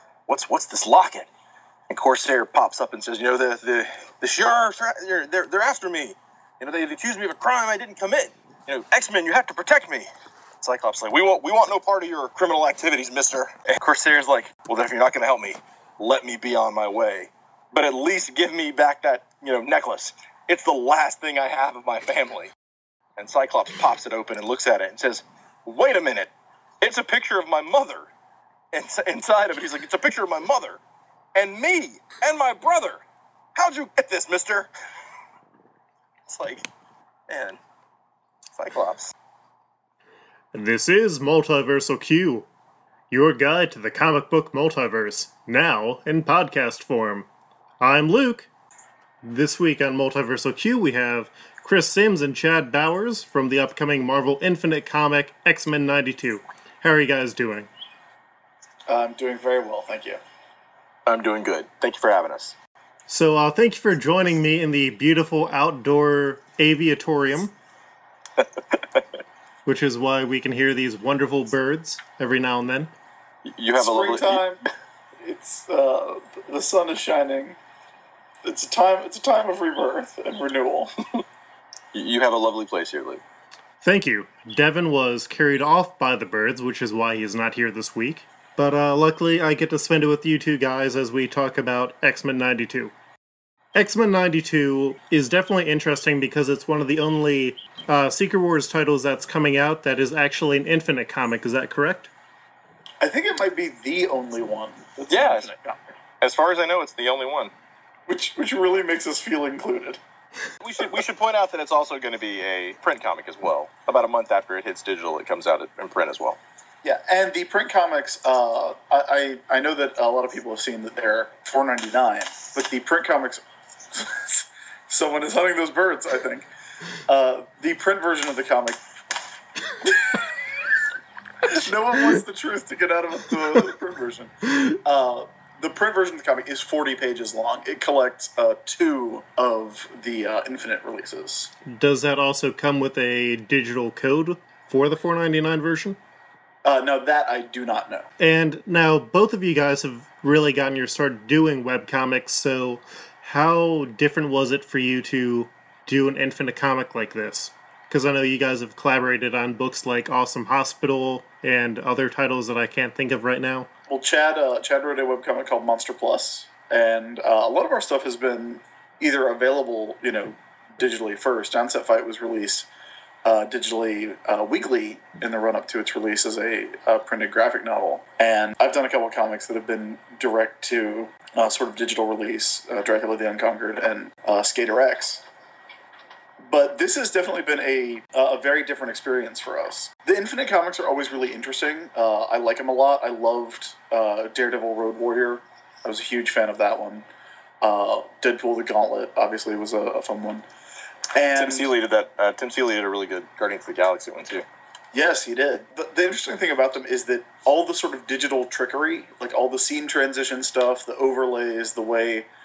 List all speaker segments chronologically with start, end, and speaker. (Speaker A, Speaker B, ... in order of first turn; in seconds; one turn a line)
Speaker A: 0.3-1.3
Speaker A: 1.9-10.1
Speaker A: 10.6-22.5
Speaker A: 23.2-28.1
Speaker A: 28.7-30.8
Speaker A: 31.4-33.0
Speaker A: 33.5-34.7
Speaker A: 36.3-36.7
Speaker A: 37.3-37.6
Speaker A: 38.6-39.1
Speaker B: 40.5-42.5
Speaker B: 43.1-47.3
Speaker B: 47.8-48.5
Speaker B: 49.2-57.7
Speaker C: 58.9-60.2
Speaker A: 61.1-62.6
Speaker B: 63.1-67.5
Speaker A: 68.4-69.0
Speaker B: 69.7-72.9
Speaker A: 73.5-74.4
Speaker C: 73.8-74.6
Speaker C: 75.2-77.6
Speaker C: 78.4-80.9
Speaker A: 81.9-83.2
Speaker B: 83.8-92.9
Speaker B: 93.8-102.1
Speaker C: 103.0-105.8
Speaker A: 105.1-105.5
Speaker A: 106.2-107.5
Speaker C: 108.1-110.0
Speaker A: 110.6-116.4
Speaker C: 116.8-126.5
Speaker C: 127.1-128.8
Speaker C: 129.8-130.3
Speaker C: 131.4-141.5
Speaker B: 141.7-146.0
Speaker C: 146.7-148.1
Speaker B: 148.2-163.7
Speaker C: 163.9-172.7
Speaker C: 173.2-185.2
Speaker C: 186.4-197.1
Speaker C: 197.6-200.5
Speaker C: 201.2-201.7
Speaker A: 201.3-204.4
Speaker C: 204.9-212.3